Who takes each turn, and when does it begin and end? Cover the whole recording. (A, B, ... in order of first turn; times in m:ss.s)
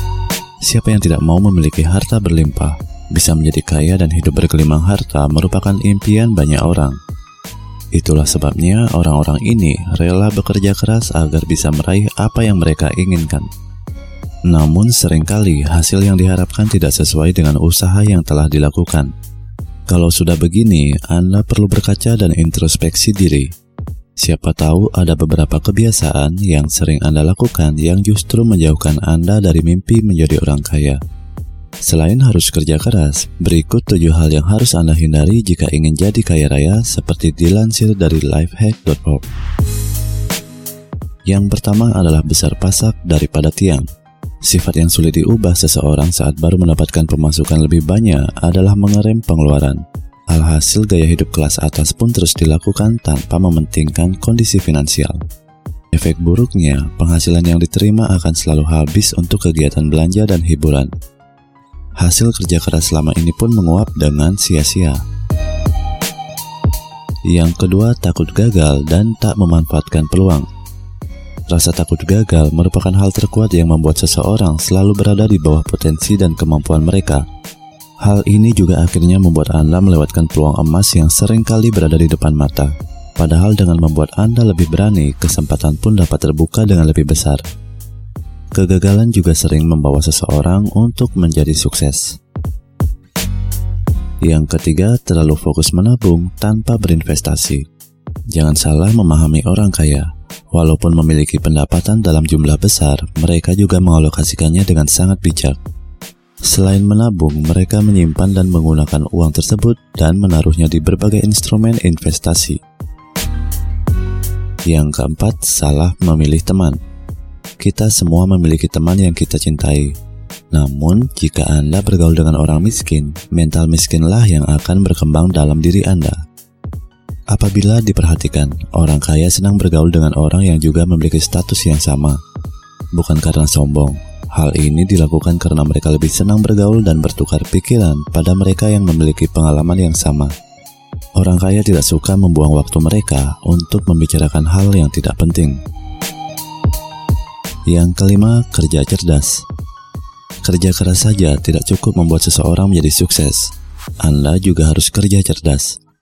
0:00.6-0:07.0 A
0:07.9-0:13.5 A
0:14.5-0:19.1 A
0:19.9-0:23.5 A
0:24.2-0:31.0 A
0:31.8-0:39.2 A
0:41.3-0:43.8 A
0:44.4-0:55.2 A
0:55.9-1:00.9 A
1:02.0-1:05.0 A
1:07.3-1:10.5 A
1:11.5-1:17.2 A
1:18.0-1:27.4 A
1:28.5-1:32.2 A
1:34.2-1:37.6 A
1:38.3-1:45.6 A
1:46.4-1:52.6 A
1:54.7-1:56.8 A
1:57.6-2:00.0 A
2:00.5-2:06.2 A
2:07.3-2:12.2 A
2:12.9-2:20.3 A
2:21.2-2:25.6 A
2:27.7-2:29.4 A
2:30.4-2:33.5 A
2:34.0-2:35.8 A